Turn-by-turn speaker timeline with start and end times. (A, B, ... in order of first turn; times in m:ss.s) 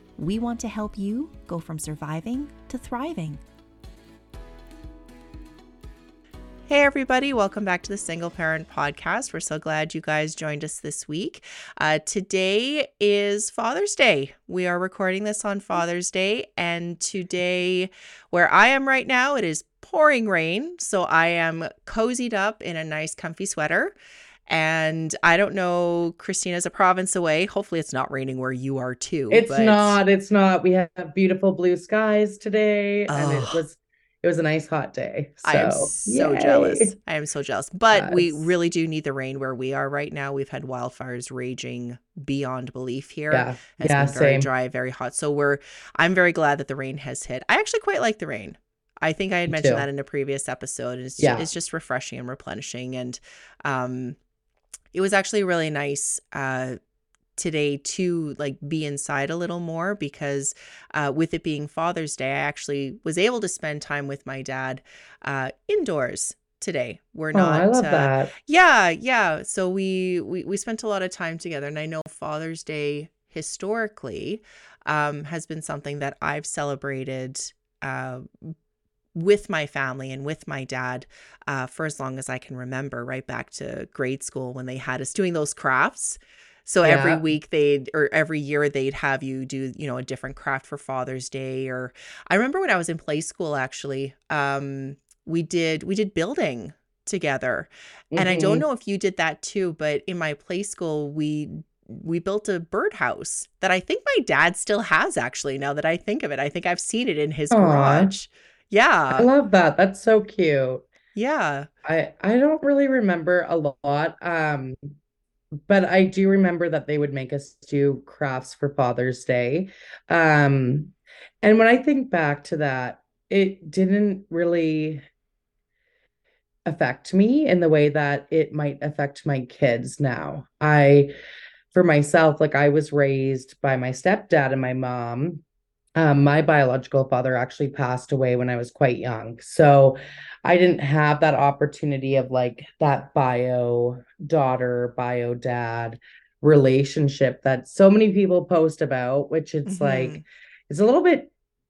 0:00.2-0:03.4 A
0:06.7-0:23.9 B
0:24.5-0:30.0 B
0:29.3-0:36.9 C
0:33.1-0:33.6 B
0:35.4-0:54.2 B
0:37.9-0:38.4 C
0:43.3-0:44.5 C
0:49.5-0:49.9 C
0:51.2-0:51.5 C
0:54.9-0:56.8 B
0:57.4-1:18.5 B
1:07.3-1:08.3 C
1:19.1-1:49.3 B
1:26.8-1:27.3 C
1:38.1-1:38.6 C
1:47.5-1:48.1 C
1:49.1-1:50.8 C
1:51.1-1:51.7 B
1:51.8-1:55.0 C
1:55.7-2:05.0 C
2:06.7-2:11.1 C
2:11.7-2:15.4 C
2:16.0-2:31.3 C
2:29.6-2:30.2 B